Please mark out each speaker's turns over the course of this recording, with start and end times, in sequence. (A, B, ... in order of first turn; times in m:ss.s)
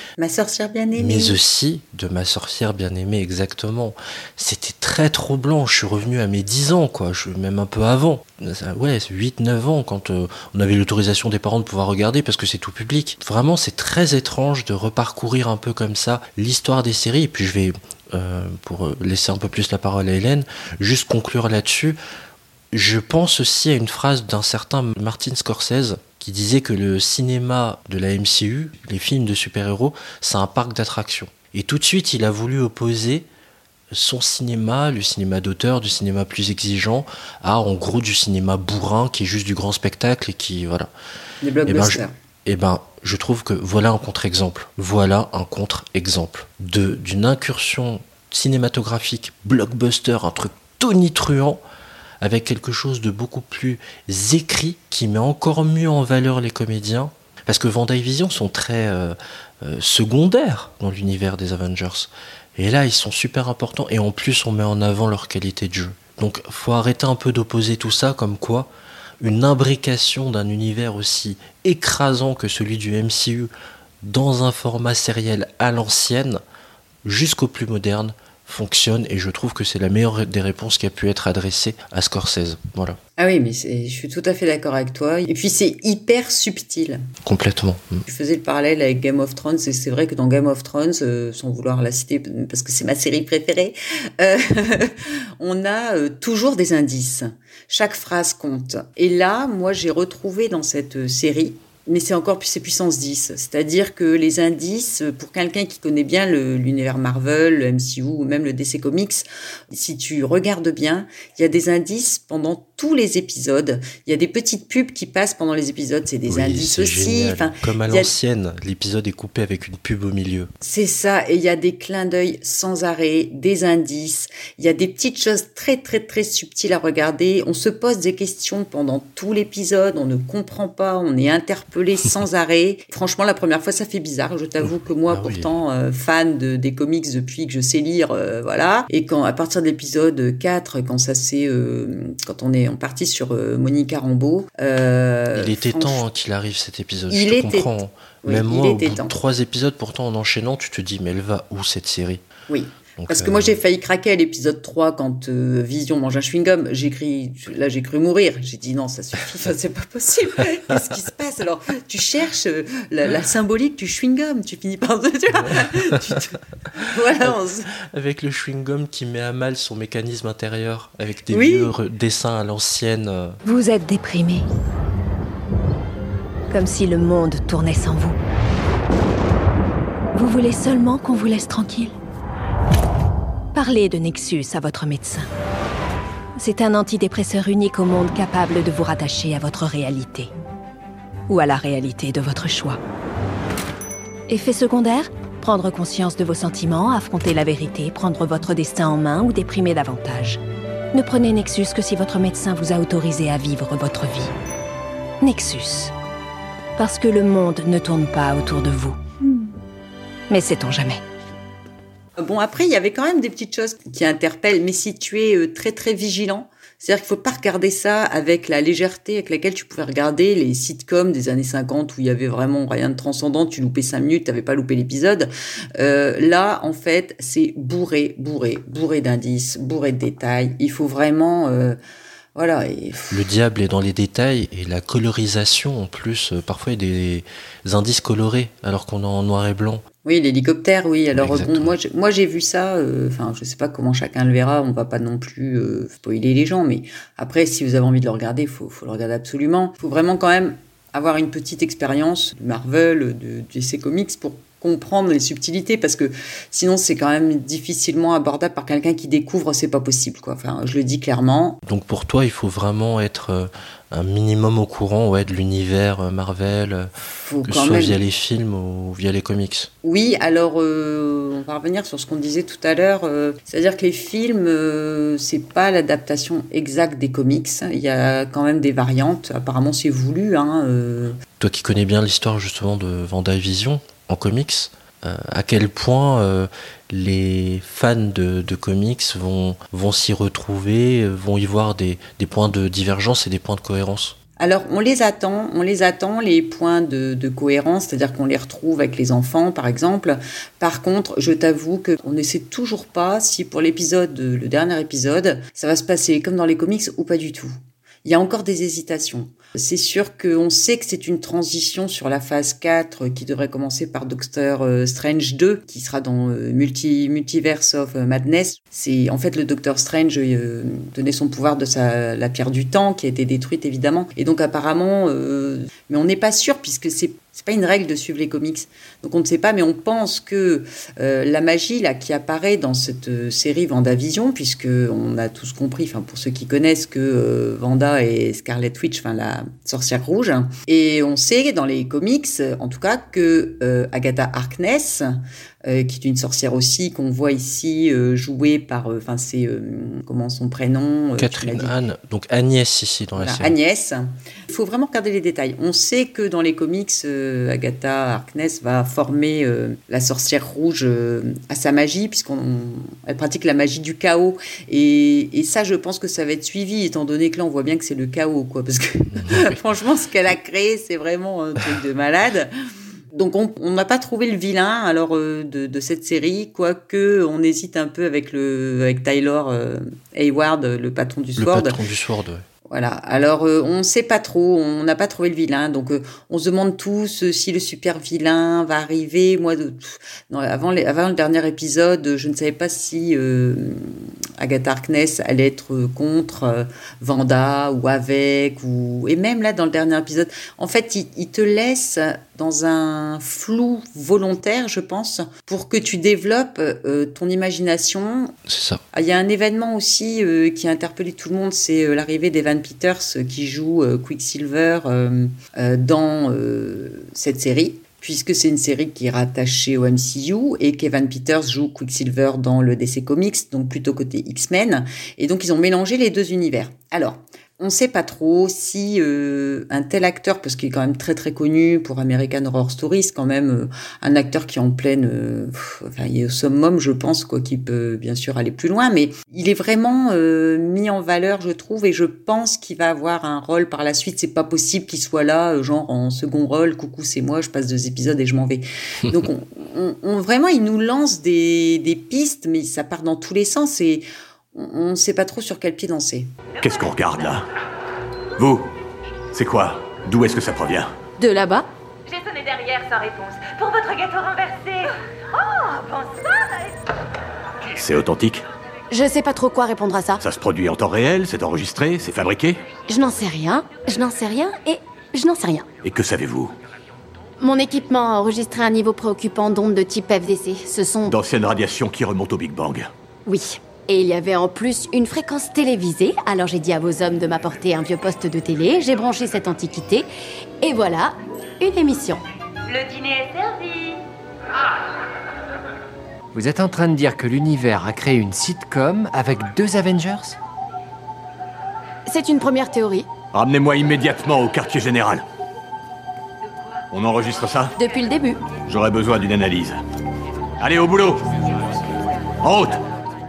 0:00.2-0:01.4 A
0:01.0-0:22.0 B
0:22.7-0:33.2 B
0:33.9-0:40.9 B
0:41.4-0:42.1 A
0:41.7-0:51.6 B
0:52.2-1:13.5 B
1:14.0-1:16.4 B
1:17.0-1:23.0 B
1:23.2-1:27.0 A
1:27.2-1:28.0 B
1:28.0-1:58.1 A
1:56.3-2:00.5 B
2:00.6-2:26.0 A
2:14.6-2:15.5 B
2:25.3-2:32.2 B
2:27.1-2:29.1 A
2:32.5-2:47.7 A
2:33.0-2:33.6 B
2:47.2-2:53.4 B
2:51.3-2:51.7 A
2:53.4-2:54.4 C
2:56.5-2:58.2 C
3:00.1-3:01.9 C
3:03.5-3:05.3 C
3:06.4-3:10.3 C
3:11.3-3:12.8 C
3:14.3-3:20.4 C
3:20.9-3:24.3 C
3:25.2-3:25.9 C
3:26.8-3:29.0 C
3:30.3-3:31.0 C
3:32.2-3:51.8 A
3:52.3-3:53.2 A
3:53.1-3:59.8 B
4:00.0-4:21.6 A
4:01.1-4:01.8 B
4:21.6-4:26.9 B
4:27.2-4:28.0 A
4:27.4-4:29.7 B
4:29.8-4:41.2 A
4:41.4-4:54.2 B
4:54.4-5:51.7 A
5:51.2-5:53.6 B
5:53.2-6:12.5 A
6:09.2-6:09.5 B
6:13.1-6:21.8 A
6:21.4-6:22.4 B
6:22.7-6:48.3 A
6:48.5-6:48.8 B
6:48.9-7:36.3 A
7:36.6-7:37.4 D
7:38.4-7:38.7 D
7:39.3-7:40.9 D
7:41.2-7:41.7 E
7:42.0-7:46.7 F
7:47.7-7:48.4 D
7:48.9-7:50.2 E
7:50.2-7:52.6 D
7:52.9-7:55.6 E
7:55.8-7:56.5 D
7:57.4-8:01.1 E
8:01.1-8:02.9 D
8:03.2-8:10.1 E
8:10.6-8:12.2 E
8:12.7-8:14.0 F
8:16.3-8:20.3 G
8:22.0-8:23.1 E
8:23.3-8:25.2 D
8:26.9-8:27.7 D
8:27.8-8:28.5 E
8:28.6-8:29.8 D
8:30.6-8:31.3 D
8:32.4-8:32.8 D